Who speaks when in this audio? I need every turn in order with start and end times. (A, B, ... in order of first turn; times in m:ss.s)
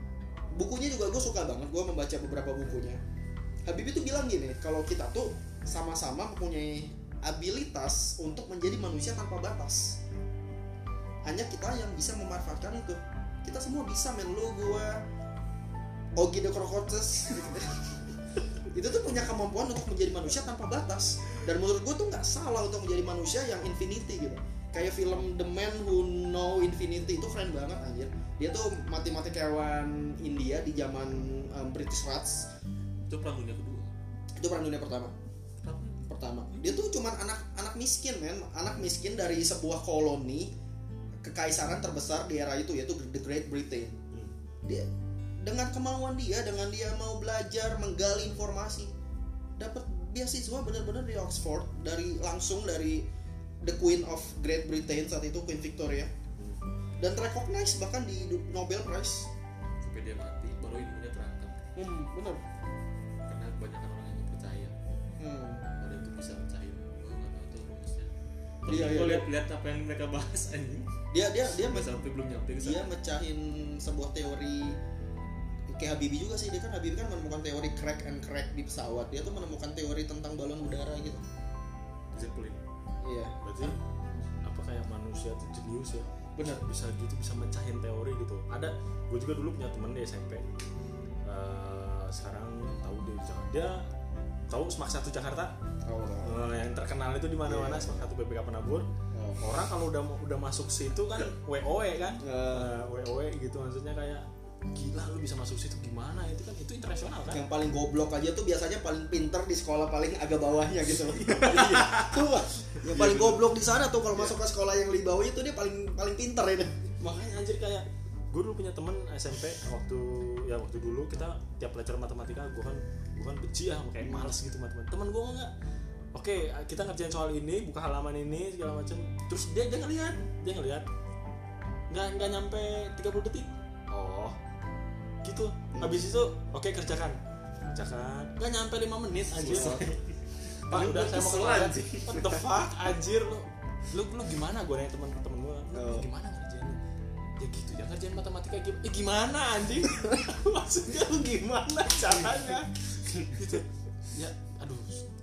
0:00.5-0:03.0 A
0:03.7-0:10.0 A
0:11.2-0:15.0 A
0:16.2-0:17.8 A
0:18.7-0:32.5 A
0:33.1-0:34.0 B
0:34.4-0:35.1 A
0:35.6-0:36.0 B
0:36.1-0:40.5 A
0:41.2-0:44.0 A
0:45.4-0:48.9 A
0:49.6-0:53.0 A
0:53.6-0:56.1 A
0:56.4-0:56.6 C
0:57.0-0:59.3 A
0:59.8-1:01.7 B
1:01.8-1:02.4 A
1:03.2-1:04.7 B
1:05.2-1:05.6 A
1:05.8-1:08.1 B
1:08.6-1:12.8 B
1:08.6-1:09.3 A
1:11.1-1:12.0 A
1:12.6-1:14.8 A
1:15.7-1:21.2 A
1:22.1-1:22.6 B
1:23.0-1:24.2 A
1:23.4-1:23.8 C
1:24.4-1:30.5 C
1:26.4-1:26.6 A
1:31.2-1:33.9 C
1:34.5-1:35.5 C
1:35.8-1:36.4 A
1:36.2-1:38.9 C
1:37.4-1:38.0 A
1:39.1-1:39.4 A
1:39.4-1:47.4 C
1:42.2-1:42.7 A
1:47.3-1:56.9 A
1:51.0-1:53.5 C
1:57.0-2:05.5 C
2:04.0-2:04.3 A
2:06.1-2:10.8 C
2:11.9-2:14.4 C
2:15.2-2:17.2 C
2:15.7-2:16.0 A
2:17.7-2:20.0 C
2:19.4-2:19.9 A
2:19.5-2:22.4 B
2:20.6-2:26.8 C
2:25.7-2:26.1 A
2:27.4-2:35.0 C
2:33.0-2:33.6 B